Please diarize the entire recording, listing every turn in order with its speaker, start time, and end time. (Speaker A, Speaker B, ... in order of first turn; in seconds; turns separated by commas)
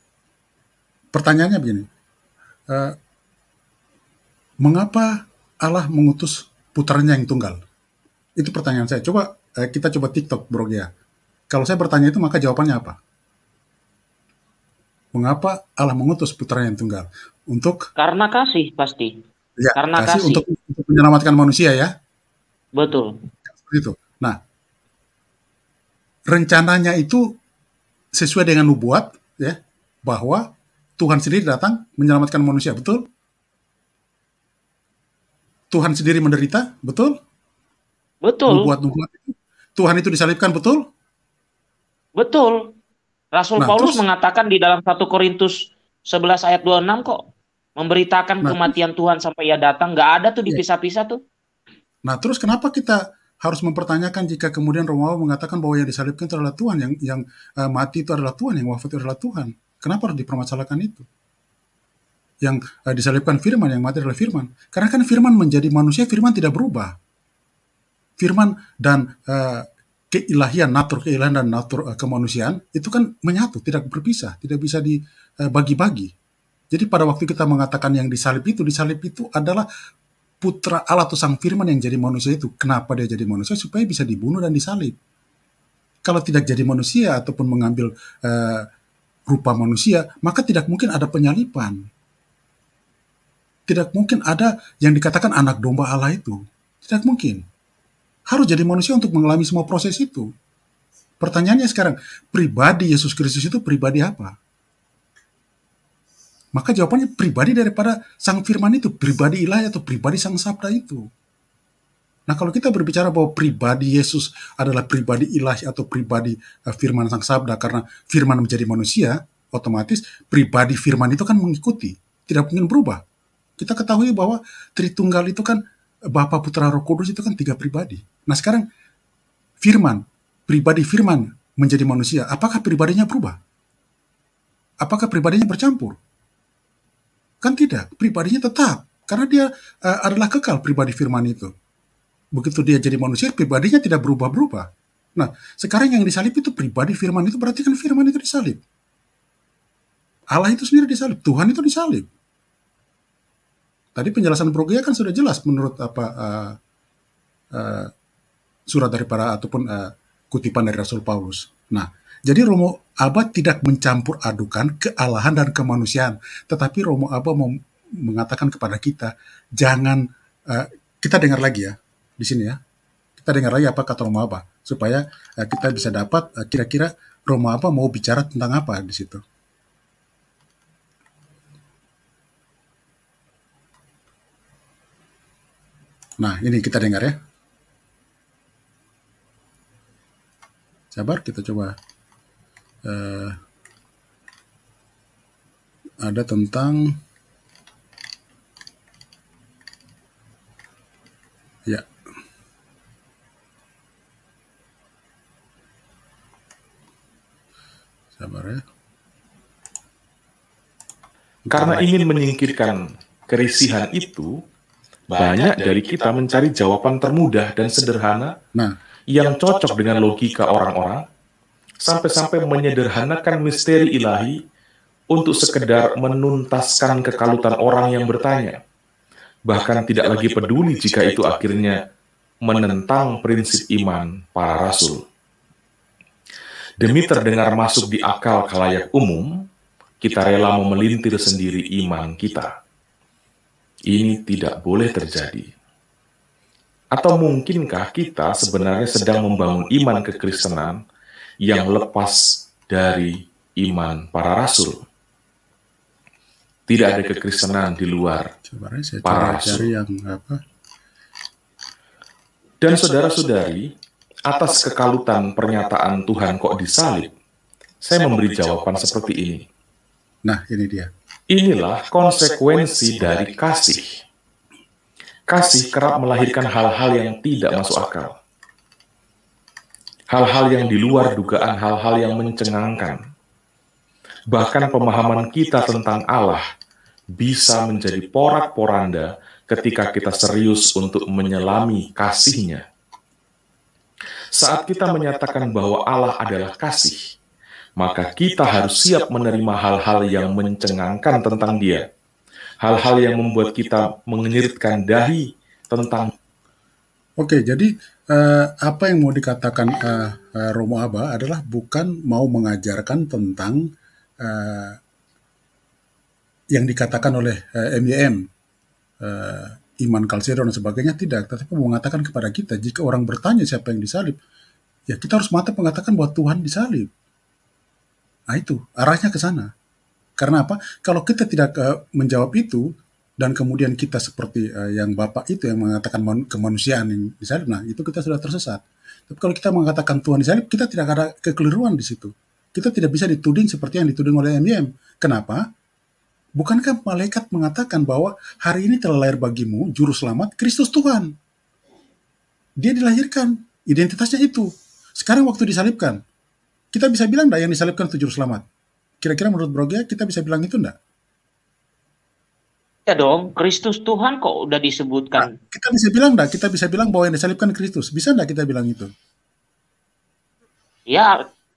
Speaker A: 1.1-1.9, Speaker A: 2.7-3.0, Speaker A: 4.6-7.6, Speaker A: 8.4-10.9, Speaker A: 11.5-13.0, Speaker A: 15.1-17.8, Speaker B: 18.0-19.1, Speaker A: 19.6-21.9, Speaker B: 19.8-20.4, Speaker B: 22.8-23.1, Speaker A: 23.5-24.4, Speaker A: 26.3-27.2, Speaker A: 28.1-30.4, Speaker A: 31.0-33.0, Speaker A: 35.7-37.1, Speaker B: 38.2-38.7, Speaker A: 38.5-40.8, Speaker B: 42.2-42.6, Speaker B: 43.3-47.2, Speaker A: 43.6-44.0, Speaker B: 47.8-51.2, Speaker A: 48.4-48.8, Speaker A: 52.0-61.0, Speaker A: 62.4-66.9, Speaker A: 68.2-76.1, Speaker A: 76.7-79.7, Speaker A: 80.4-84.9, Speaker A: 86.0-88.7, Speaker A: 89.3-91.8, Speaker A: 93.7-97.4, Speaker A: 98.3-100.3, Speaker A: 101.2-104.3, Speaker A: 106.5-111.0, Speaker A: 112.3-123.0, Speaker A: 123.6-125.6, Speaker A: 126.1-128.6, Speaker A: 129.6-133.4, Speaker A: 134.8-136.0, Speaker A: 137.4-141.5, Speaker A: 142.3-148.6, Speaker A: 150.3-152.1, Speaker A: 153.9-156.6, Speaker A: 157.5-157.9, Speaker A: 158.7-172.6, Speaker A: 173.2-179.2, Speaker A: 186.2-187.2, Speaker A: 190.9-191.7, Speaker A: 192.8-193.3, Speaker A: 196.0-196.9, Speaker A: 208.2-208.6, Speaker A: 211.5-211.8, Speaker C: 211.5-212.8, Speaker C: 213.3-214.3, Speaker C: 215.1-218.3, Speaker C: 219.1-221.0, Speaker C: 221.8-224.3, Speaker C: 225.1-228.6, Speaker C: 229.5-231.8, Speaker C: 232.4-235.0, Speaker C: 236.8-239.2, Speaker C: 240.0-242.5, Speaker C: 243.9-245.4, Speaker C: 246.9-250.7, Speaker C: 251.5-254.8, Speaker C: 256.7-258.3, Speaker A: 258.4-260.4, Speaker C: 259.0-259.6, Speaker C: 262.6-263.6, Speaker C: 264.3-267.1, Speaker C: 267.8-269.4, Speaker A: 270.2-270.9, Speaker C: 271.3-273.8, Speaker C: 275.3-278.1, Speaker C: 280.1-283.0, Speaker C: 284.3-286.4, Speaker C: 287.2-292.6, Speaker C: 294.3-297.0, Speaker C: 297.8-301.8, Speaker C: 302.6-306.1, Speaker A: 307.2-313.6, Speaker A: 314.2-314.8, Speaker A: 316.5-318.2, Speaker A: 319.0-324.2, Speaker A: 324.9-326.9, Speaker A: 328.3-329.5, Speaker A: 330.2-332.7, Speaker A: 333.2-345.4, Speaker A: 346.4-351.1, Speaker A: 352.6-356.0, Speaker A: 356.7-358.4, Speaker A: 359.0-360.7, Speaker B: 362.9-365.3, Speaker A: 365.2-368.9, Speaker B: 370.9-371.1